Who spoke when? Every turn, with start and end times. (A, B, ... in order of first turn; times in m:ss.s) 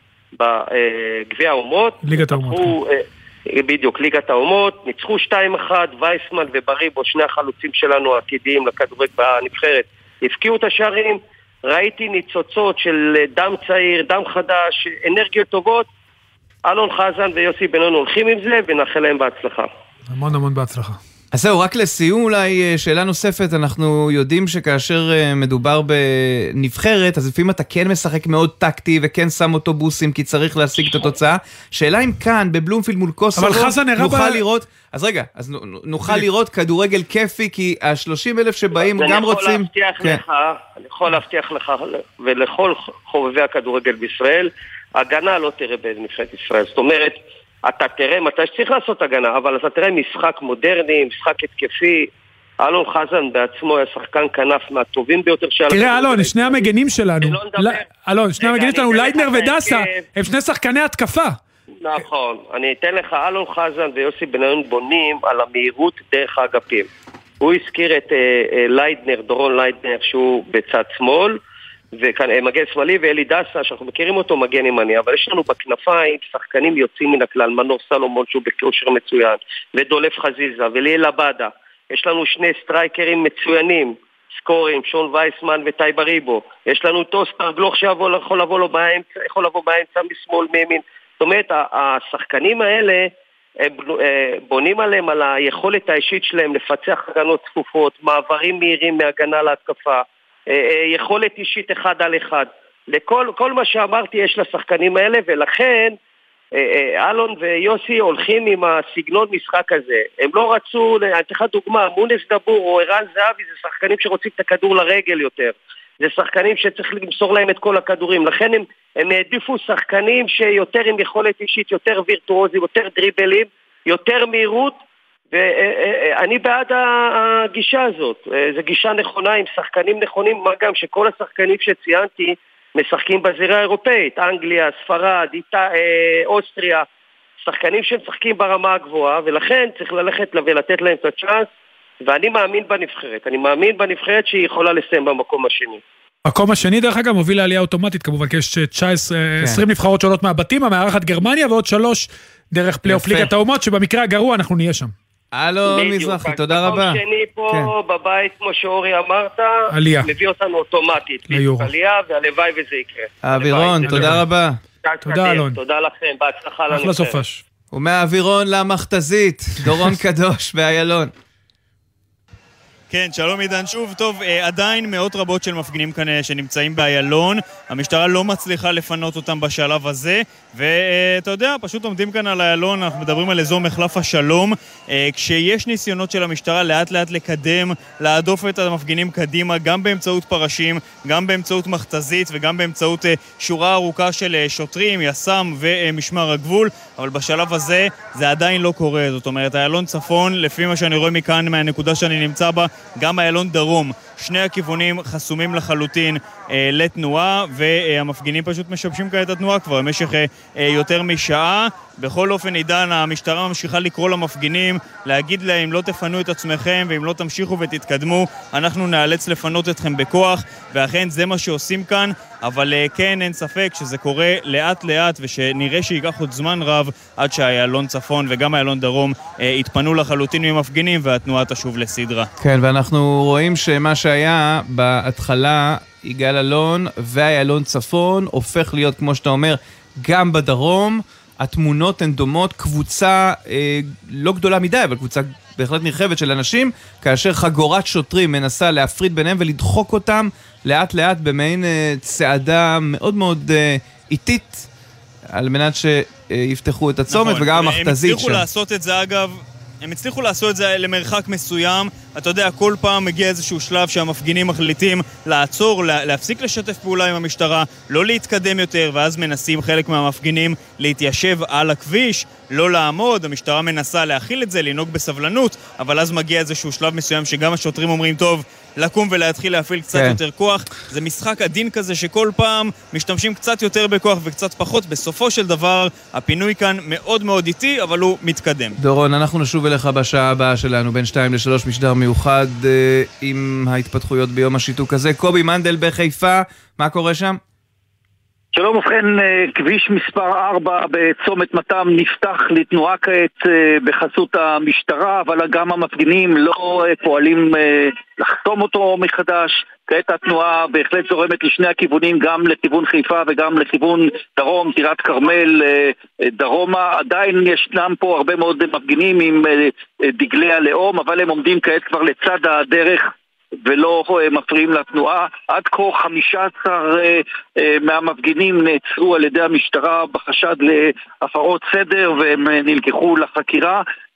0:00.4-0:15.9 A
0:02.0-0:02.8 B
0:16.7-0:19.7 A
0:20.1-0:21.0 B
0:21.3-0:40.2 C
0:33.4-0:34.4 B
0:38.8-0:52.1 A
0:52.6-0:57.8 A
0:55.7-1:01.4 B
0:58.4-1:00.0 A
1:01.8-1:06.9 A
1:07.4-1:11.4 A
1:12.0-1:46.0 A
1:46.6-2:04.8 A
2:05.3-2:16.9 A
2:17.4-2:21.5 A
2:22.0-2:25.8 A
2:26.3-2:34.9 B
2:29.4-2:29.6 C
2:32.9-2:33.3 C
2:35.3-2:37.7 C
2:35.6-2:44.1 A
2:39.7-2:40.1 B
2:41.3-2:41.7 B
2:43.2-2:44.6 C
2:43.8-2:44.3 B
2:44.8-2:47.2 A
2:45.0-2:45.6 B
2:46.7-2:47.4 B
2:47.7-2:51.1 C
2:52.9-3:52.3 D
3:52.4-4:14.7 C
4:15.3-4:18.4 C
4:17.1-4:48.8 D
4:39.9-4:40.2 C
4:48.8-4:57.4 C
4:58.5-5:23.1 E
5:23.6-5:33.8 E